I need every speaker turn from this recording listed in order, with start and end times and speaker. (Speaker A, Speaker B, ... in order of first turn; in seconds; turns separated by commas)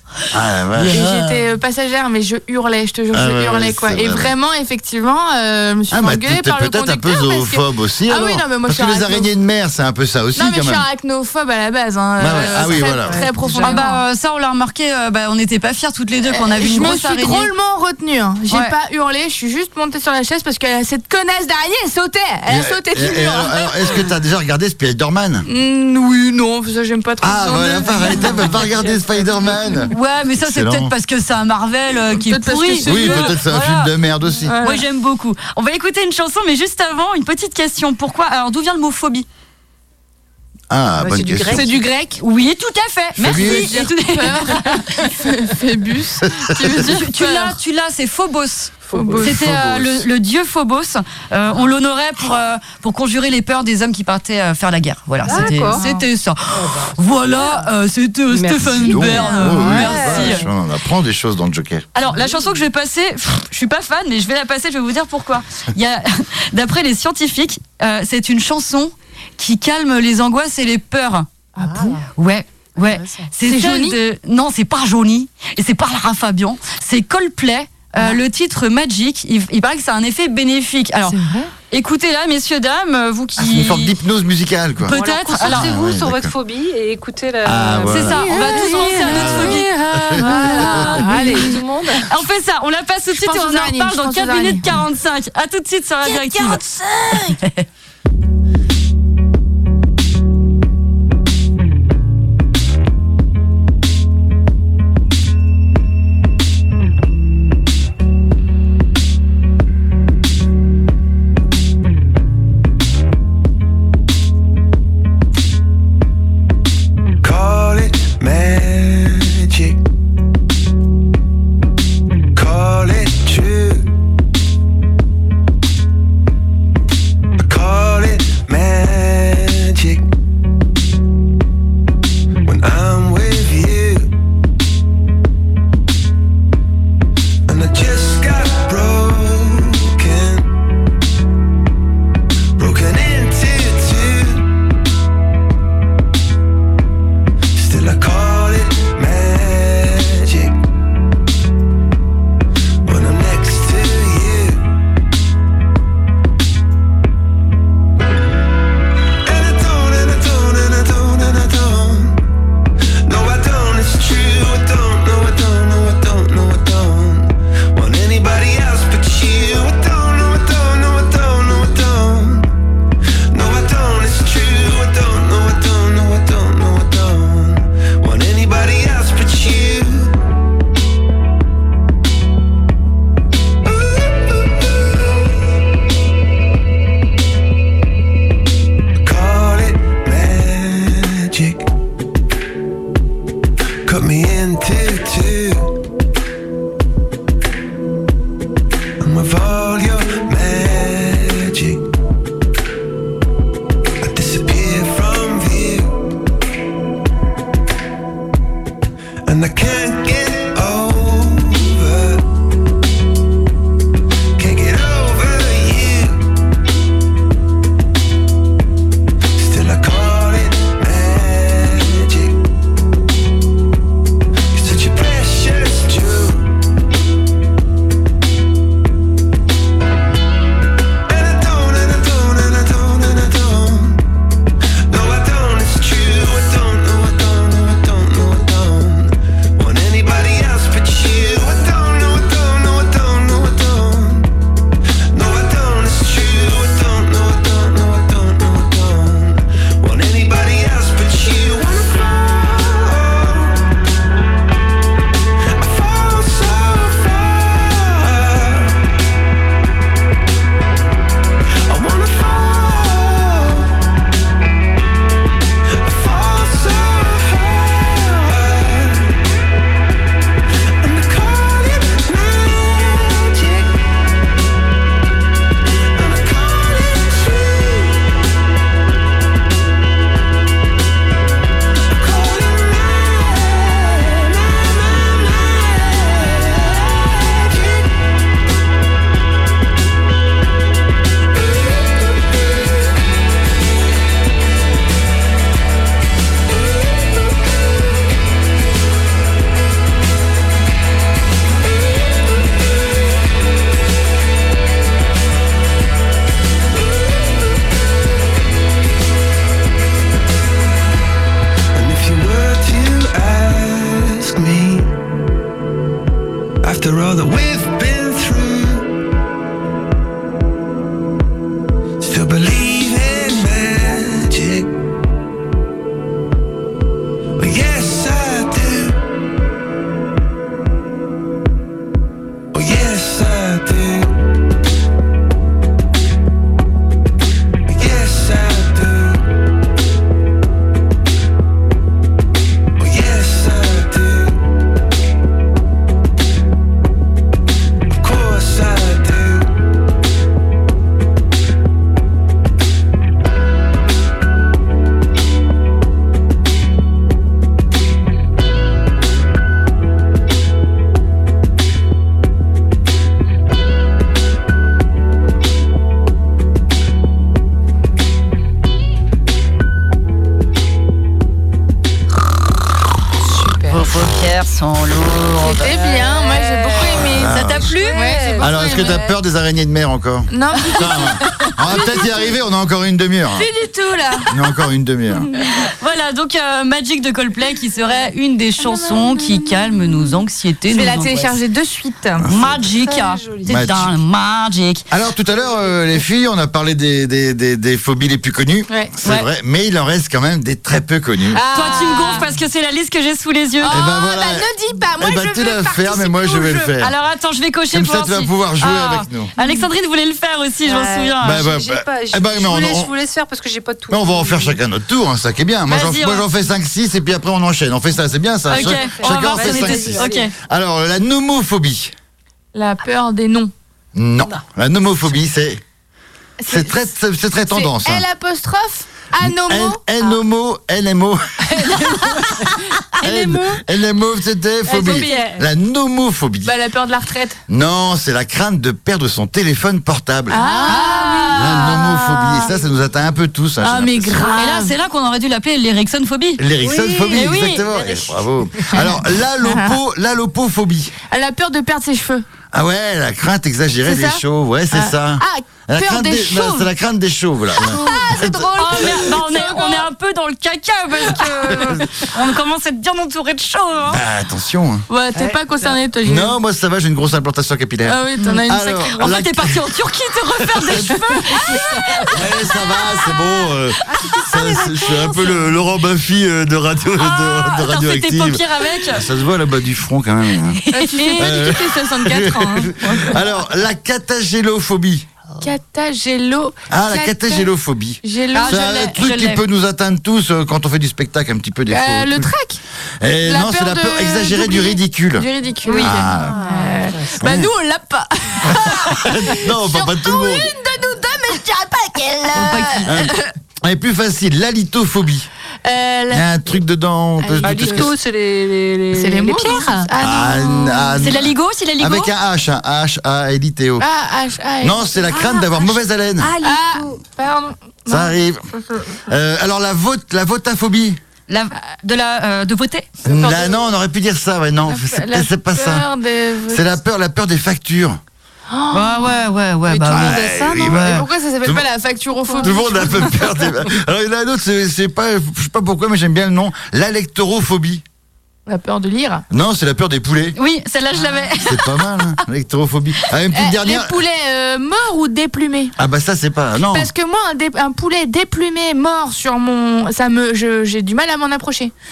Speaker A: 0.3-1.4, Speaker B: 0.9-9.3, Speaker A: 3.1-4.3, Speaker A: 5.9-10.8, Speaker B: 10.3-14.0, Speaker A: 12.2-13.2, Speaker C: 12.3-13.8, Speaker D: 13.6-17.5, Speaker B: 16.3-24.1, Speaker A: 22.5-25.5, Speaker B: 25.4-28.9, Speaker A: 27.2-30.9, Speaker D: 29.9-33.9, Speaker B: 32.3-33.3, Speaker A: 32.8-34.6, Speaker B: 34.4-34.8, Speaker D: 34.6-39.3, Speaker A: 40.7-41.7, Speaker C: 41.0-41.8, Speaker B: 41.5-42.2, Speaker D: 42.2-44.9, Speaker A: 43.1-43.8, Speaker B: 43.3-47.6, Speaker A: 46.2-46.9, Speaker D: 46.6-60.4, Speaker C: 48.9-49.3, Speaker B: 48.9-49.3, Speaker A: 49.2-50.1, Speaker C: 55.2-55.8, Speaker B: 55.3-56.0, Speaker C: 56.5-57.7, Speaker C: 58.3-60.5, Speaker A: 58.6-61.9, Speaker D: 61.9-71.2, Speaker C: 62.1-62.5, Speaker B: 71.6-72.0, Speaker C: 71.6-72.1, Speaker D: 72.2-83.9, Speaker C: 72.8-73.3, Speaker B: 73.5-74.0, Speaker B: 81.1-81.5, Speaker A: 83.4-86.3, Speaker D: 84.8-85.7, Speaker C: 84.9-89.6, Speaker A: 87.4-90.9, Speaker D: 87.9-89.7, Speaker B: 88.3-91.6, Speaker C: 90.1-92.1, Speaker D: 92.0-96.6, Speaker B: 93.1-94.7, Speaker B: 96.2-97.3, Speaker E: 117.2-119.8, Speaker E: 122.3-123.9, Speaker E: 127.4-130.1, Speaker E: 132.4-134.1, Speaker E: 137.5-140.5, Speaker E: 142.6-144.5, Speaker E: 147.5-150.6, Speaker E: 152.8-154.6, Speaker E: 159.2-162.2, Speaker E: 163.1-172.5, Speaker E: 173.3-180.1, Speaker E: 183.6-185.2, Speaker E: 189.0-191.7, Speaker E: 193.8-195.7, Speaker E: 199.0-201.8, Speaker E: 204.0-205.9, Speaker E: 209.2-212.2, Speaker E: 214.4-216.2, Speaker E: 219.3-222.4, Speaker E: 224.5-226.5, Speaker E: 231.1-234.0, Speaker E: 234.9-244.3, Speaker E: 245.1-253.6, Speaker E: 255.6-258.8, Speaker E: 261.7-263.8, Speaker E: 265.8-269.2, Speaker E: 270.8-273.8, Speaker E: 275.9-278.1, Speaker E: 281.9-287.9, Speaker E: 311.7-314.9, Speaker E: 316.6-318.9, Speaker E: 322.0-324.7, Speaker E: 327.4-329.0, Speaker E: 332.5-334.1, Speaker E: 337.7-339.2, Speaker E: 342.8-344.4, Speaker E: 348.0-349.5, Speaker C: 373.2-373.8, Speaker D: 373.7-375.7, Speaker B: 375.4-377.4, Speaker C: 375.8-377.1, Speaker D: 377.0-378.0, Speaker A: 377.1-377.7, Speaker C: 377.7-379.1, Speaker B: 377.9-379.0, Speaker A: 378.4-383.5, Speaker B: 380.3-382.1, Speaker B: 383.3-384.3, Speaker A: 384.3-385.3, Speaker D: 385.6-391.4, Speaker C: 388.9-389.4, Speaker B: 390.7-392.2, Speaker A: 392.2-392.6, Speaker D: 392.3-394.8, Speaker C: 392.6-393.7, Speaker A: 393.4-393.9, Speaker A: 394.9-401.4, Speaker B: 401.3-402.2, Speaker D: 401.5-403.8, Speaker B: 403.6-406.7, Speaker A: 403.7-406.9, Speaker D: 406.8-411.4, Speaker A: 407.7-409.3, Speaker B: 409.4-409.7, Speaker C: 410.6-414.6, Speaker A: 411.2-412.9, Speaker A: 413.9-421.9, Speaker D: 415.7-416.2, Speaker D: 418.5-420.3, Speaker C: 418.5-420.3, Speaker B: 422.5-423.5, Speaker A: 423.9-425.6, Speaker B: 426.4-426.8, Speaker A: 426.5-428.1, Speaker B: 427.5-429.8, Speaker A: 429.2-431.2, Speaker B: 433.0-433.5, Speaker A: 433.0-436.5, Speaker B: 434.7-435.3, Speaker C: 434.7-435.4, Speaker B: 436.4-437.4, Speaker A: 437.5-440.4, Speaker B: 440.3-442.5, Speaker C: 440.3-441.4, Speaker D: 440.6-441.7, Speaker A: 441.3-444.4, Speaker B: 443.6-444.7, Speaker D: 444.1-446.4, Speaker A: 446.4-450.9, Speaker C: 446.6-448.8, Speaker D: 447.1-447.7, Speaker B: 449.4-449.8, Speaker B: 451.1-452.2, Speaker A: 452.5-458.9, Speaker B: 453.8-456.7, Speaker B: 457.6-459.9, Speaker D: 458.6-464.0, Speaker A: 463.9-464.9, Speaker B: 464.9-466.4, Speaker C: 465.1-465.8, Speaker A: 466.0-469.8, Speaker B: 467.9-469.0, Speaker D: 468.9-472.2, Speaker A: 470.4-471.1, Speaker A: 472.1-480.6, Speaker C: 473.9-475.5, Speaker D: 477.0-479.0, Speaker D: 480.5-481.3, Speaker B: 480.7-483.2, Speaker A: 481.2-485.1, Speaker B: 485.4-487.5, Speaker A: 486.7-492.3, Speaker B: 488.0-488.9, Speaker D: 488.3-489.4, Speaker B: 491.7-492.6, Speaker A: 493.0-496.4, Speaker B: 493.2-503.3, Speaker C: 496.1-497.2, Speaker A: 497.2-497.5, Speaker A: 498.5-500.5, Speaker D: 502.3-503.1, Speaker A: 502.9-505.3, Speaker B: 505.6-506.2, Speaker A: 506.1-507.9, Speaker B: 507.2-507.9, Speaker C: 507.4-509.9, Speaker B: 508.9-511.0, Speaker A: 510.0-513.8, Speaker D: 511.0-512.1, Speaker B: 513.8-515.1, Speaker A: 514.6-516.3, Speaker C: 515.1-517.0, Speaker B: 516.4-518.9, Speaker A: 517.9-518.4, Speaker A: 519.1-521.0, Speaker D: 521.3-522.9, Speaker A: 523.0-525.9, Speaker B: 523.1-523.6, Speaker B: 524.7-526.7, Speaker A: 526.5-528.0, Speaker B: 528.5-529.1, Speaker D: 528.7-530.2, Speaker B: 529.8-533.1, Speaker A: 529.9-531.6, Speaker C: 530.0-530.5, Speaker C: 532.2-532.5, Speaker A: 532.4-537.8, Speaker B: 538.5-539.2, Speaker A: 539.3-540.4, Speaker D: 540.4-542.2, Speaker A: 541.4-544.0, Speaker B: 543.3-545.7, Speaker A: 545.8-546.9, Speaker B: 546.7-551.7